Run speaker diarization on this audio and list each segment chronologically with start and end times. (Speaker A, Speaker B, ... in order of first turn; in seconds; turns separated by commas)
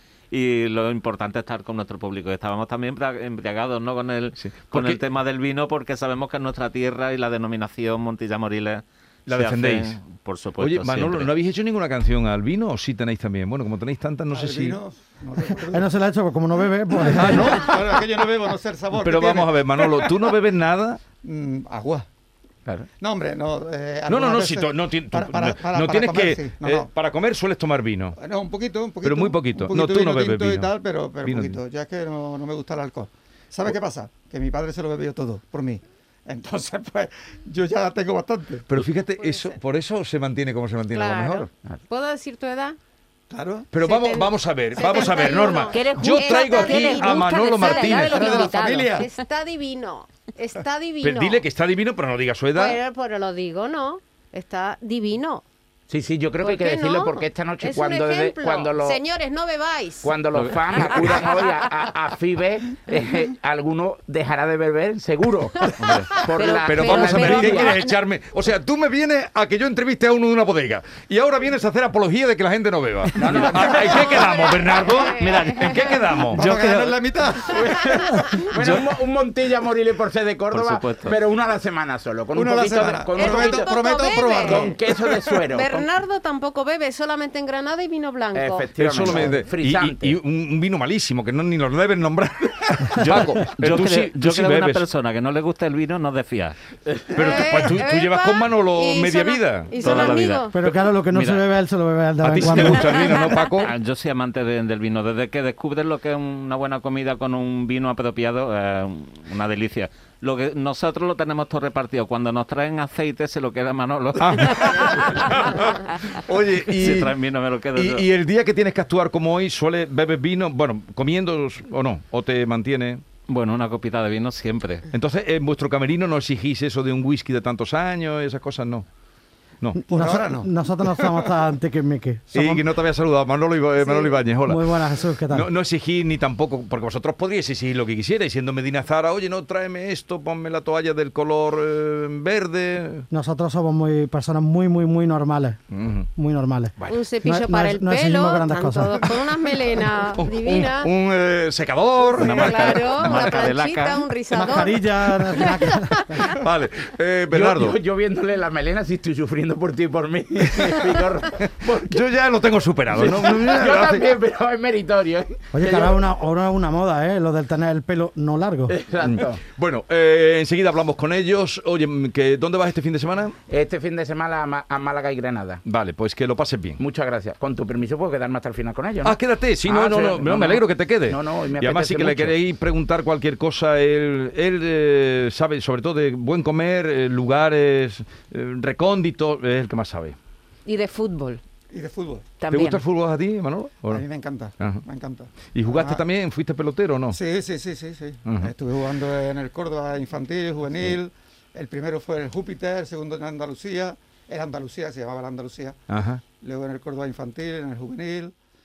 Speaker A: 0.3-11.3, Speaker B: 4.4-5.0, Speaker B: 9.3-10.0, Speaker B: 10.6-14.8, Speaker C: 14.3-15.9, Speaker D: 15.7-17.7, Speaker B: 17.1-17.4, Speaker C: 17.2-20.3, Speaker B: 19.0-21.0, Speaker C: 21.2-22.1, Speaker C: 23.0-26.9, Speaker B: 24.1-28.2, Speaker C: 28.2-38.7, Speaker B: 29.0-31.6, Speaker B: 38.7-41.5, Speaker E: 40.9-42.8, Speaker C: 43.3-43.9, Speaker B: 43.7-48.3, Speaker E: 43.9-51.5, Speaker C: 44.8-45.1, Speaker F: 45.8-49.0, Speaker C: 48.1-49.1, Speaker B: 51.0-52.8, Speaker E: 52.5-55.4, Speaker G: 55.9-59.0, Speaker E: 56.4-57.1, Speaker E: 57.6-60.1, Speaker G: 60.0-67.8, Speaker A: 60.4-61.1, Speaker A: 65.8-66.2, Speaker E: 66.4-67.8, Speaker B: 66.5-76.5, Speaker G: 73.2-73.6, Speaker A: 73.2-73.8, Speaker E: 73.8-76.0, Speaker A: 75.1-76.9, Speaker C: 76.3-78.4, Speaker G: 77.5-83.8, Speaker A: 78.5-79.0, Speaker A: 80.5-81.2, Speaker C: 82.3-85.5, Speaker E: 83.2-84.5, Speaker F: 83.9-84.3, Speaker G: 84.4-85.9, Speaker E: 85.5-88.7, Speaker G: 88.3-90.2, Speaker B: 88.8-94.9, Speaker A: 93.0-97.1, Speaker B: 97.1-100.1, Speaker E: 97.2-100.5, Speaker A: 99.7-101.5, Speaker F: 99.8-100.4, Speaker D: 100.5-103.0, Speaker B: 102.2-103.7, Speaker A: 103.6-116.1, Speaker B: 114.2-117.1, Speaker A: 116.7-118.1, Speaker B: 117.7-123.0, Speaker A: 123.3-124.9, Speaker B: 124.9-128.9, Speaker D: 129.8-132.7, Speaker C: 129.9-131.4, Speaker B: 132.3-134.7, Speaker D: 133.8-135.5, Speaker B: 135.3-143.1, Speaker D: 143.1-145.6, Speaker B: 145.7-146.1, Speaker D: 146.1-149.1, Speaker B: 146.8-147.0, Speaker E: 146.9-150.9, Speaker B: 149.0-149.3, Speaker B: 150.1-153.3, Speaker E: 152.1-155.9, Speaker A: 153.0-154.1, Speaker D: 154.3-156.3, Speaker B: 156.4-157.8, Speaker G: 157.3-162.0, Speaker B: 161.4-164.1, Speaker G: 162.9-166.0, Speaker D: 165.5-168.8, Speaker G: 168.7-169.4, Speaker B: 169.0-173.4, Speaker G: 173.5-175.6, Speaker B: 175.7-176.8, Speaker G: 176.8-182.4, Speaker B: 179.1-190.2, Speaker F: 190.7-191.4, Speaker C: 191.7-192.3, Speaker F: 192.4-192.8, Speaker B: 192.5-194.0, Speaker C: 193.8-196.0, Speaker B: 195.4-197.2, Speaker C: 197.1-205.8, Speaker B: 198.2-198.5, Speaker B: 205.9-206.2, Speaker C: 206.4-208.3